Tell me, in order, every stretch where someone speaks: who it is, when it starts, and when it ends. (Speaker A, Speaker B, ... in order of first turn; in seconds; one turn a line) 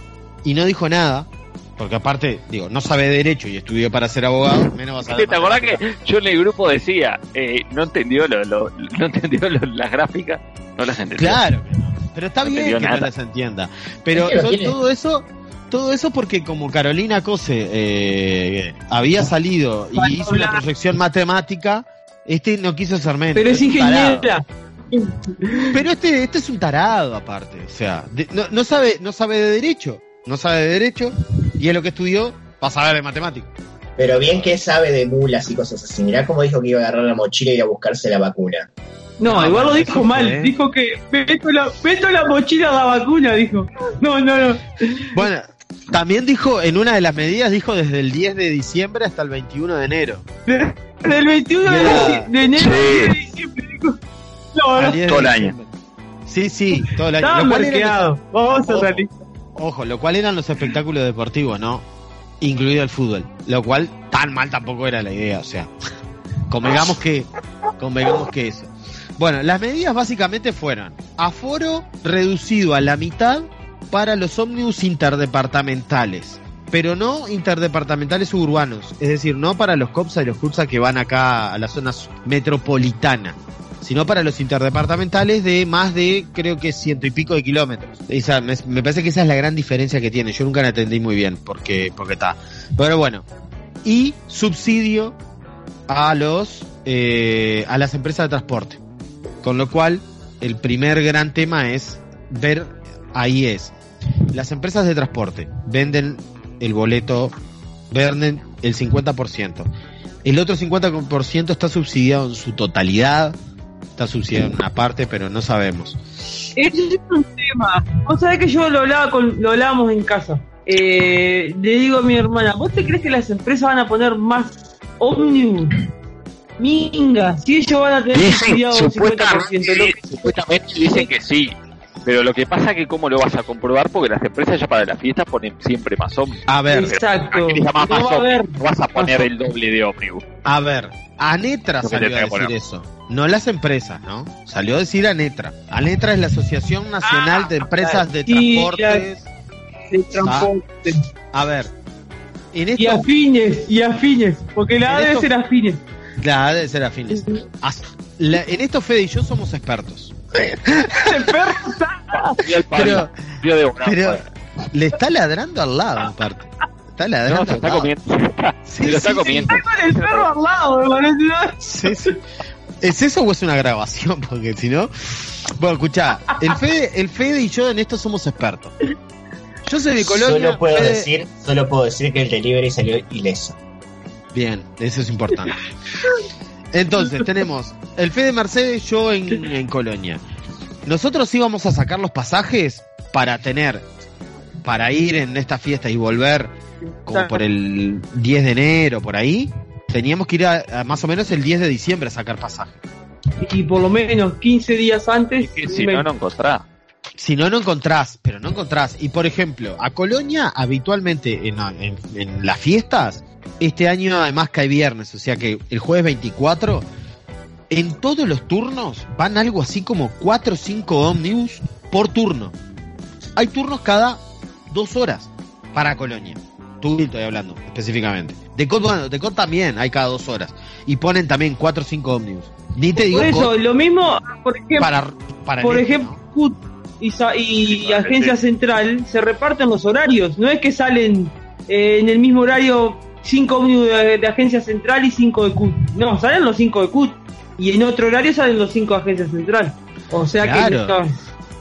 Speaker A: 0.4-5.8
Speaker B: 5.1-11.4
Speaker A: 11.2-24.3
Speaker B: 12.4-13.1
Speaker C: 14.2-14.8
Speaker D: 20.0-20.6
Speaker D: 23.4-25.8
Speaker A: 25.7-33.5
Speaker C: 34.0-38.7
Speaker A: 34.3-34.5
Speaker D: 39.2-45.0
Speaker A: 39.3-40.5
Speaker A: 45.1-50.2
Speaker D: 50.5-54.0
Speaker A: 51.6-52.3
Speaker B: 51.9-53.2
Speaker D: 54.5-55.0
Speaker A: 54.8-55.7
Speaker B: 55.1-55.5
Speaker A: 56.3-61.9
Speaker D: 56.8-59.1
Speaker A: 62.4-65.7
Speaker A: 66.5-93.2
Speaker A: 93.8-95.2
Speaker A: 95.9-98.8
Speaker A: 99.4-103.7
Speaker A: 104.3-107.3
Speaker A: 107.9-109.7
Speaker A: 110.2-113.3
Speaker A: 114.0-116.0
Speaker D: 116.6-125.8
Speaker D: 126.6-130.2
Speaker B: 128.1-140.2
Speaker A: 136.5-137.0
Speaker D: 136.7-138.6
Speaker A: 139.0-139.3
Speaker A: 140.4-149.3
Speaker B: 141.8-142.5
Speaker D: 147.0-149.1
Speaker D: 149.9-151.0
Speaker A: 150.2-150.5
Speaker A: 151.3-151.7
Speaker A: 152.5-153.1
Speaker D: 152.8-155.8
Speaker A: 154.9-155.3
Speaker A: 156.2-161.1
Speaker D: 157.2-157.4
Speaker D: 160.7-162.6
Speaker B: 162.3-164.2
Speaker A: 162.7-163.1
Speaker A: 163.8-167.9
Speaker B: 167.3-170.3
Speaker A: 168.7-169.6
Speaker D: 169.5-172.1
Speaker A: 171.6-172.2
Speaker A: 172.8-178.8
Speaker A: 179.7-181.1
Speaker C: 180.0-183.6
Speaker A: 184.3-185.6
Speaker A: 186.7-190.2
Speaker A: 190.8-193.8
Speaker A: 194.6-196.5
Speaker D: 196.9-197.4
Speaker A: 197.1-202.8
Speaker D: 203.4-206.1
Speaker B: 205.4-206.7
Speaker A: 207.2-216.9
Speaker A: 217.7-222.6
Speaker A: 223.4-233.5
Speaker D: 233.0-234.9
Speaker A: 234.8-236.2
Speaker D: 235.6-251.2
Speaker B: 237.7-238.4
Speaker A: 250.4-250.9